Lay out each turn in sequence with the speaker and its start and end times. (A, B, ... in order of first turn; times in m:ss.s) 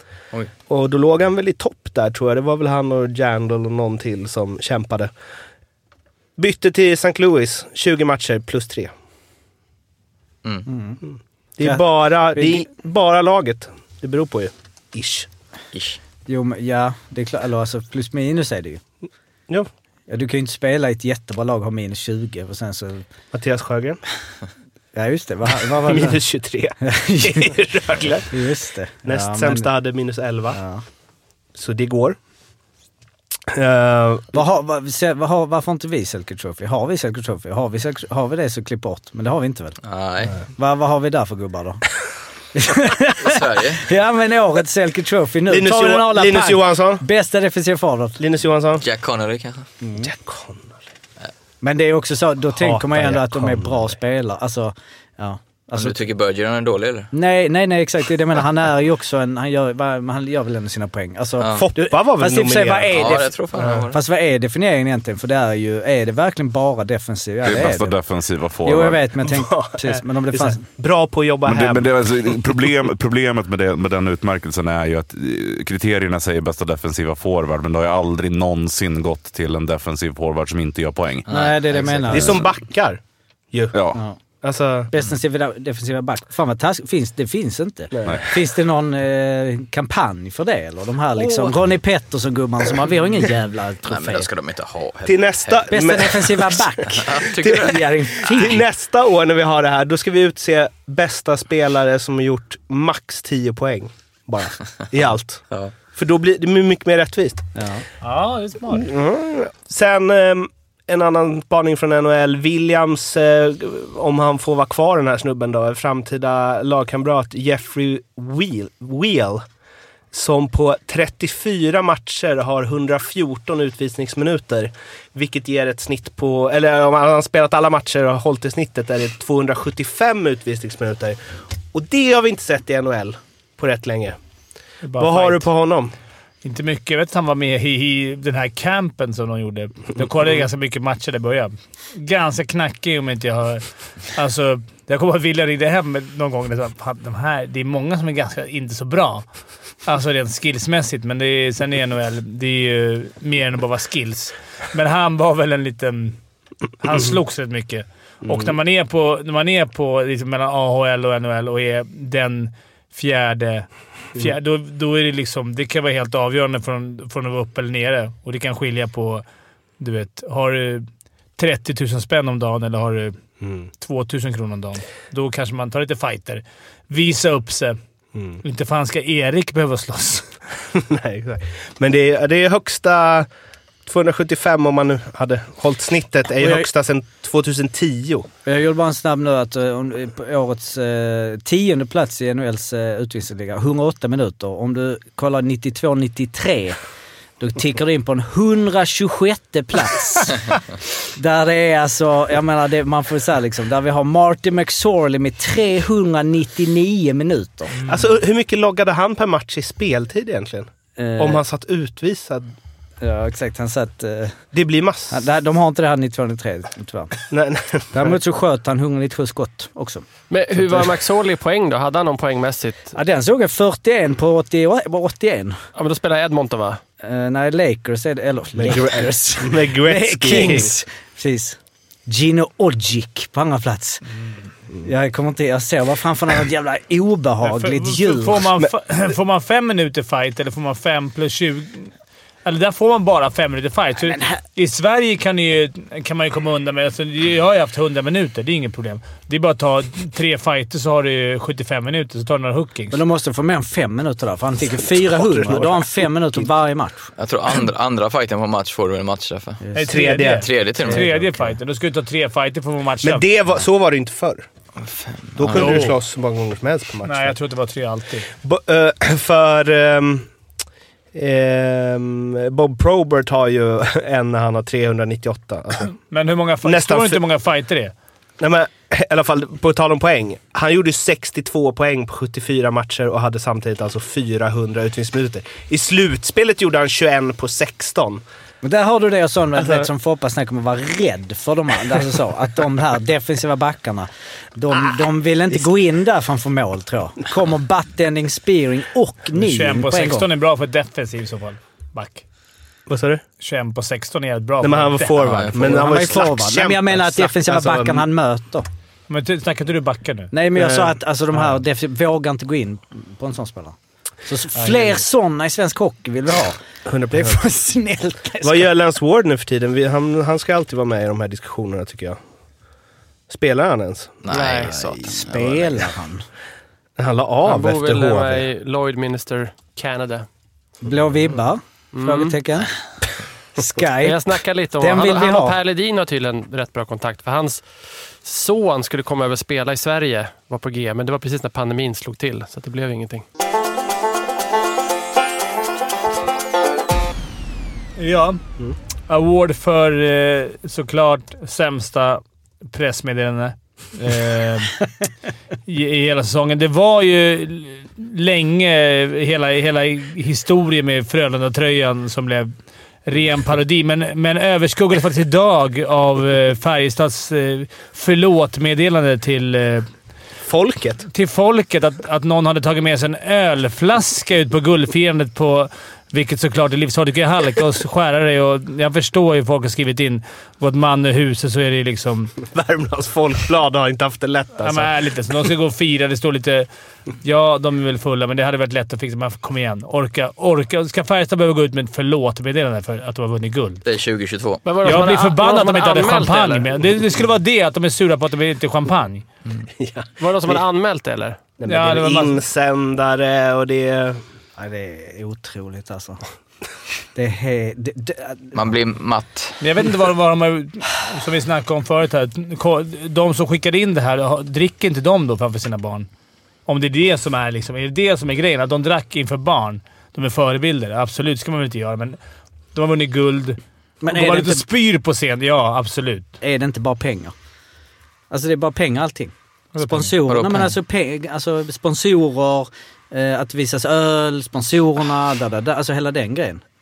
0:00.7-0:05.1 A
0:06.4-0:08.9 A
0:10.7-0:11.0 B
0:11.6-0:15.3 A
0:11.6-0:12.7 B
0:15.7-0:16.0 C
0:16.3-0:18.8 B
0:20.1-0:23.0 B
0:23.3-0:24.0 A
0:25.0-0:26.2 B
0:25.8-0:28.4 A
0:26.8-0:27.5 B
0:28.3-0:29.7 B
0:29.0-0:30.6 A
0:30.5-0:30.8 B
0:31.6-0:32.2 A
0:33.5-0:34.3 A
0:34.3-0:39.8 B
0:39.8-0:40.4 C
0:40.6-0:41.8 B
0:42.5-0:48.2 B
0:43.2-0:43.8 C
0:45.5-0:47.0 A
0:48.2-0:48.8 A
0:48.8-0:49.7 C
0:49.8-0:50.1 B
0:50.0-0:50.8 A
0:51.6-0:56.0 B
0:52.6-0:53.9 A
0:55.8-0:57.1 C
0:57.1-1:08.0 B
1:01.4-1:01.6 C
1:01.6-1:03.8 A
1:02.9-1:04.0 C
1:07.4-1:09.0 D
1:08.6-1:10.6 B
1:09.3-1:11.9 A
1:11.5-1:21.3 D
1:21.3-1:22.3 C
1:21.3-1:22.4 B
1:22.1-1:23.0 A
1:23.7-1:24.0 D
1:24.4-1:24.9 A
1:24.9-1:34.3 B
1:28.0-1:28.2 A
1:33.9-1:35.6 C
1:35.1-1:47.5 A
1:35.7-1:38.7 B
1:36.9-1:37.8 C
1:47.6-1:47.8 B
1:48.0-1:48.9 E
1:48.7-1:59.4 A
2:00.1-2:11.2 A
2:11.7-2:14.2 A
2:14.8-2:15.5 E
2:15.0-2:15.9 A
2:16.4-2:29.3 E
2:29.8-2:36.2 E
2:36.8-2:49.2 E
2:38.3-2:38.5 A
2:49.8-2:50.9 E
2:51.4-2:53.2 E
2:53.4-2:53.7 A
2:53.8-2:57.8 E
2:58.2-2:58.4 A
2:58.4-3:00.3 E
3:00.7-3:03.3 A
3:03.9-3:08.3 A
3:06.4-3:06.7 B
3:08.5-3:16.8 B
3:17.4-3:20.6 B
3:21.2-3:27.9 B
3:27.8-3:32.5 A
3:31.0-3:31.4 B
3:33.0-3:34.4 B
3:34.5-3:35.2 A
3:35.1-3:37.2 B
3:37.3-3:38.2 A
3:37.9-3:40.1 B
3:40.3-3:42.9 F
3:40.6-3:40.9 B
3:43.0-3:45.6 B
3:45.8-3:46.8 F
3:47.0-3:54.0 B
3:48.6-3:50.7 A
3:54.8-3:58.5 B
3:57.4-4:01.9 E
4:02.4-4:13.0 E
4:04.1-4:04.4 B
4:12.9-4:17.1 B
4:15.1-4:16.4 A
4:17.2-4:19.6 C
4:19.6-4:19.9 B
4:19.8-4:23.2 E
4:19.9-4:21.0 A
4:20.2-4:21.0 C
4:21.0-4:21.5 B
4:23.0-4:24.4 A
4:24.8-4:25.8 C
4:25.4-4:27.4 A
4:25.5-4:26.0 E
4:27.0-4:28.3 E
4:28.4-4:30.3 A
4:31.1-4:36.0 A
4:36.1-4:37.9 E
4:36.6-4:37.2 A
4:38.4-4:48.2 A
4:48.6-5:00.3 B
4:59.4-5:02.2 E
5:02.9-5:03.2 A
5:03.4-5:05.4 E
5:04.6-5:08.0 A
5:05.2-5:06.0 C
5:05.6-5:08.7 B
5:09.1-5:10.3 E
5:10.3-5:13.8 B
5:10.6-5:10.9 A
5:14.3-5:16.6 B
5:14.6-5:15.0 E
5:16.9-5:17.4 A
5:17.1-5:18.7 B
5:18.4-5:22.2 A
5:23.3-5:24.3 A
5:24.2-5:25.8 C
5:24.3-5:25.0 F
5:25.1-5:26.3 B
5:27.0-5:28.5 A
5:27.5-5:30.3 F
5:30.8-5:32.7 B
5:31.9-5:32.4 F
5:33.6-5:35.6 B
5:34.0-5:43.2 F
5:48.0-5:48.4 E
5:49.1-5:54.8 E
5:55.7-6:02.5 E
6:03.1-6:09.9 E
6:10.5-6:11.1 A
6:11.1-6:22.3 E
6:22.5-6:24.9 A
6:24.6-6:26.7 E
6:27.2-6:33.8 E
6:33.8-6:34.6 C
6:34.6-6:36.7 F
6:34.8-6:39.3 E
6:39.8-6:40.6 A
6:40.2-6:41.4 F
6:41.6-6:44.2 A
6:41.6-6:42.4 E
6:44.6-6:46.2 B
6:47.2-6:48.6 B
6:48.6-6:49.6 C
6:49.6-6:56.1 E
6:56.7-7:02.2 E
7:02.7-7:06.3 E
7:04.0-7:04.6 B
7:06.4-7:07.3 B
7:08.3-7:16.6 B
7:09.8-7:10.1 E
7:10.3-7:10.7 C